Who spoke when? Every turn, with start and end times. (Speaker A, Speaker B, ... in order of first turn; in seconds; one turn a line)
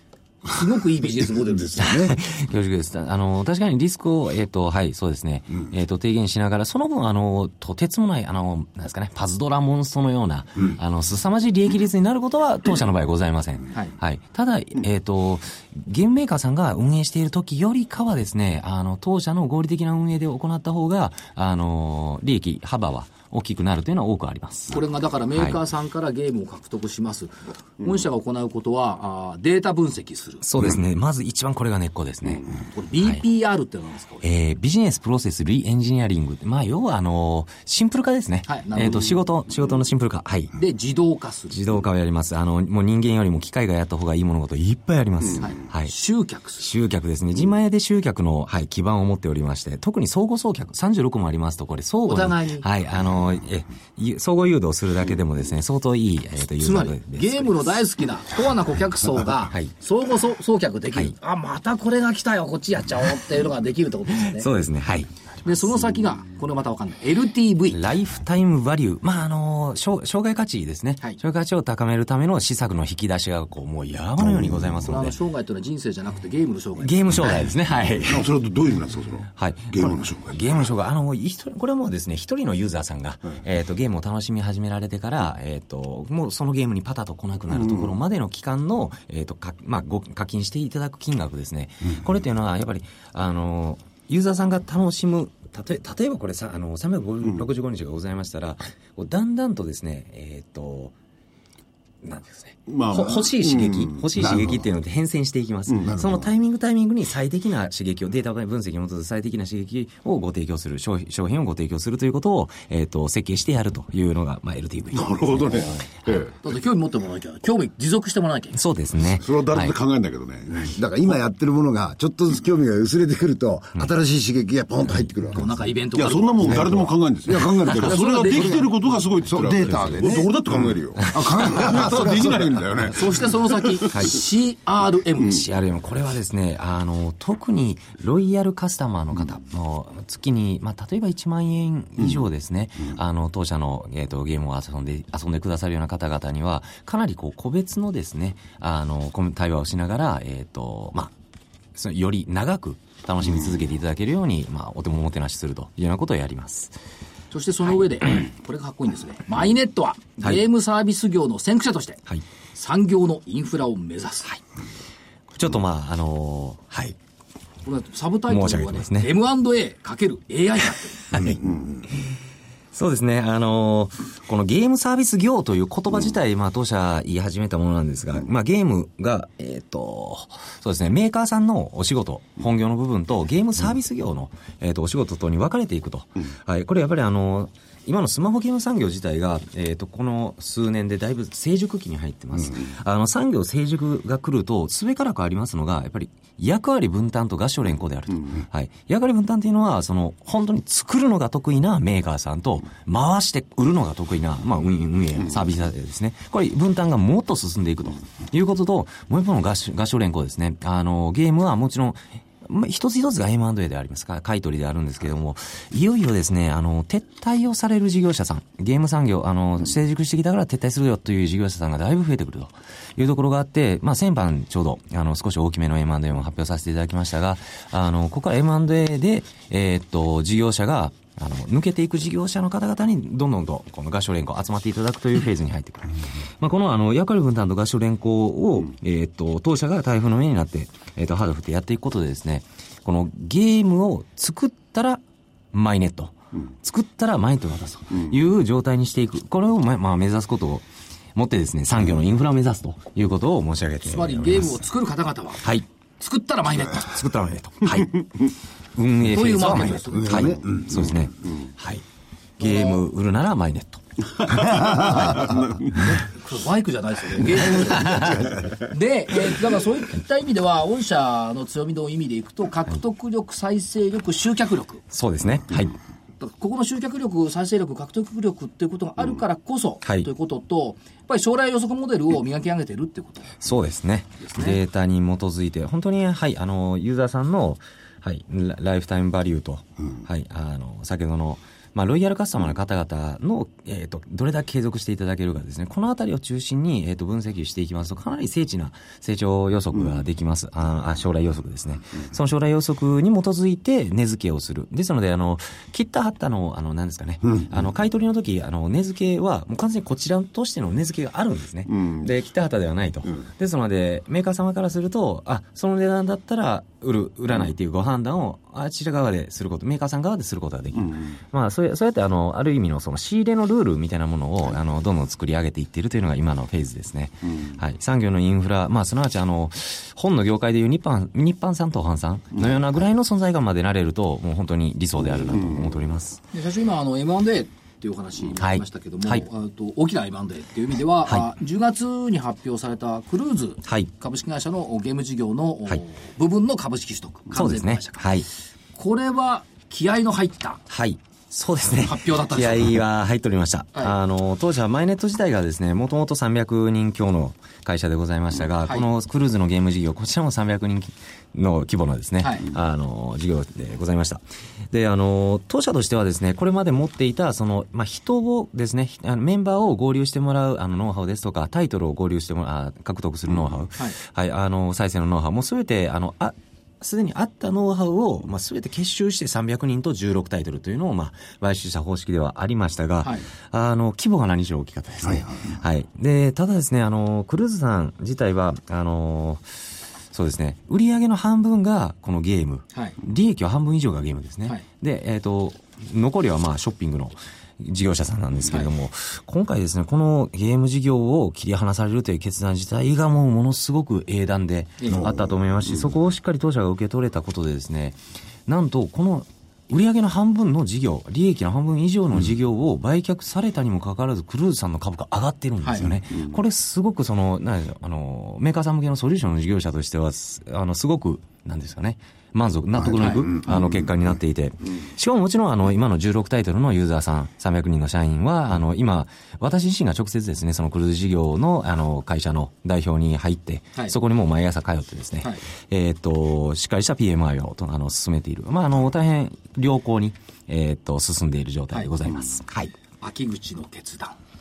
Speaker A: 0.5-2.1
Speaker B: 1.8-2.1
Speaker C: 1.8-24.8
Speaker A: 24.7-30.4
Speaker C: 30.4-32.5
Speaker A: 32.6-34.2
Speaker C: 34.2-40.5
Speaker A: 38.5-39.2
Speaker A: 40.6-41.6
Speaker C: 41.5-45.9
Speaker A: 45.4-46.7
Speaker C: 46.6-57.6
Speaker A: 52.1-52.7
Speaker A: 56.6-64.5
Speaker C: 64.3-65.1
Speaker A: 65.4-67.8
Speaker C: 67.7-75.2
Speaker A: 74.8-77.5
Speaker C: 76.8-78.3
Speaker D: 78.1-80.4
Speaker C: 79.4-100.9
Speaker C: 102.0-116.2
Speaker D: 102.7-104.3
Speaker B: 104.2-104.6
Speaker B: 105.9-106.3
Speaker D: 115.0-116.3
Speaker A: 116.4-118.6
Speaker C: 118.5-119.8
Speaker D: 119.2-120.7
Speaker B: 120.5-125.6
Speaker A: 125.3-126.8
Speaker D: 126.0-133.4
Speaker B: 126.4-132.8
Speaker A: 127.8-128.6
Speaker C: 129.7-130.0
Speaker A: 132.9-135.5
Speaker C: 133.9-134.2
Speaker C: 135.3-151.1
Speaker C: 151.8-156.8
Speaker A: 157.3-162.0
Speaker A: 162.5-164.4
Speaker C: 165.3-167.0
Speaker A: 167.7-171.2
Speaker C: 168.3-169.2
Speaker C: 171.1-172.1
Speaker C: 172.7-245.0
Speaker C: 245.5-254.6
Speaker A: 253.8-255.5
Speaker A: 256.0-257.0
Speaker C: 256.8-258.1
Speaker C: 258.8-261.8
Speaker A: 259.1-260.4
Speaker B: 259.9-260.8
Speaker C: 262.4-263.8
Speaker A: 262.4-262.8
Speaker D: 264.3-265.9
Speaker A: 265.8-274.8
Speaker C: 267.9-268.2
Speaker C: 274.9-275.8
Speaker A: 276.2-283.4
Speaker C: 283.4-336.2
Speaker A: 284.2-284.6
Speaker D: 311.7-312.1
Speaker D: 320.8-321.1
Speaker D: 335.4-335.7
Speaker A: 336.3-348.2
Speaker C: 338.4-339.2
Speaker C: 347.3-348.3
Speaker A: 348.8-350.6
Speaker C: 350.7-389.4
Speaker A: 351.8-352.8
Speaker A: 362.2-362.5
Speaker C: 390.1-442.7
Speaker A: 415.6-415.9
Speaker A: 423.0-423.3
Speaker D: 423.4-423.7
Speaker A: 443.0-444.2